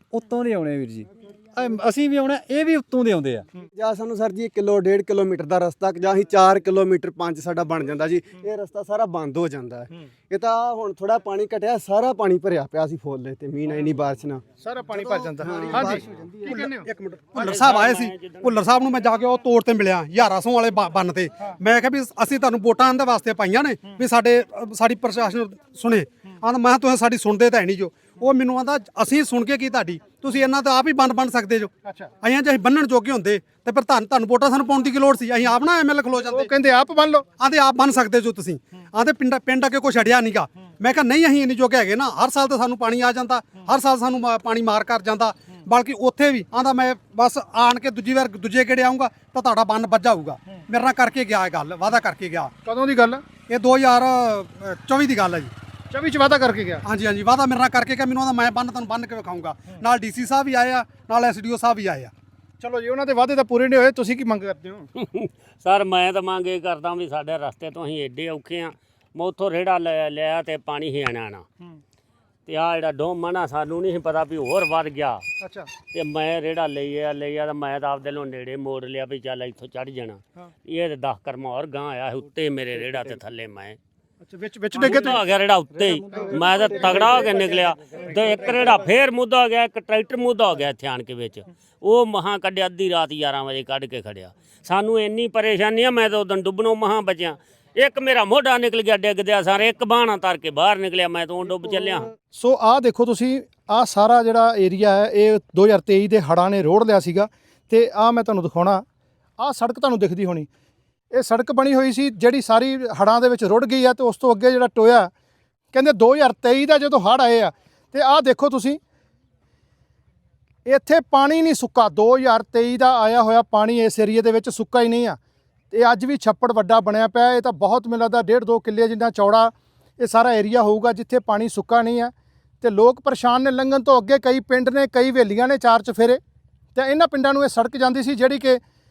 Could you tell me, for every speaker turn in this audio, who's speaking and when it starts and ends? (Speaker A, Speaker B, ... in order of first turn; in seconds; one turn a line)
Speaker A: 0.1-3.5
Speaker B: 3.7-14.4
Speaker C: 14.6-16.9
Speaker B: 14.9-16.6
Speaker D: 15.5-31.7
Speaker E: 17.4-18.6
Speaker C: 31.9-32.1
Speaker D: 32.2-36.5
Speaker C: 36.2-37.2
Speaker D: 37.4-52.5
Speaker C: 52.6-53.2
Speaker D: 53.5-55.5
Speaker C: 55.9-56.8
Speaker D: 56.8-62.1
Speaker C: 62.6-64.9
Speaker E: 65.0-71.5
Speaker E: 72.5-75.2
Speaker C: 75.4-75.7
Speaker E: 75.9-83.8
Speaker C: 84.2-85.2
Speaker E: 84.7-102.1
Speaker A: 85.6-87.7
Speaker C: 102.3-108.8
Speaker C: 109.4-110.5
Speaker C: 111.1-115.1
Speaker C: 115.7-118.8
Speaker C: 120.7-125.2
Speaker C: 125.7-136.2
Speaker C: 136.8-138.6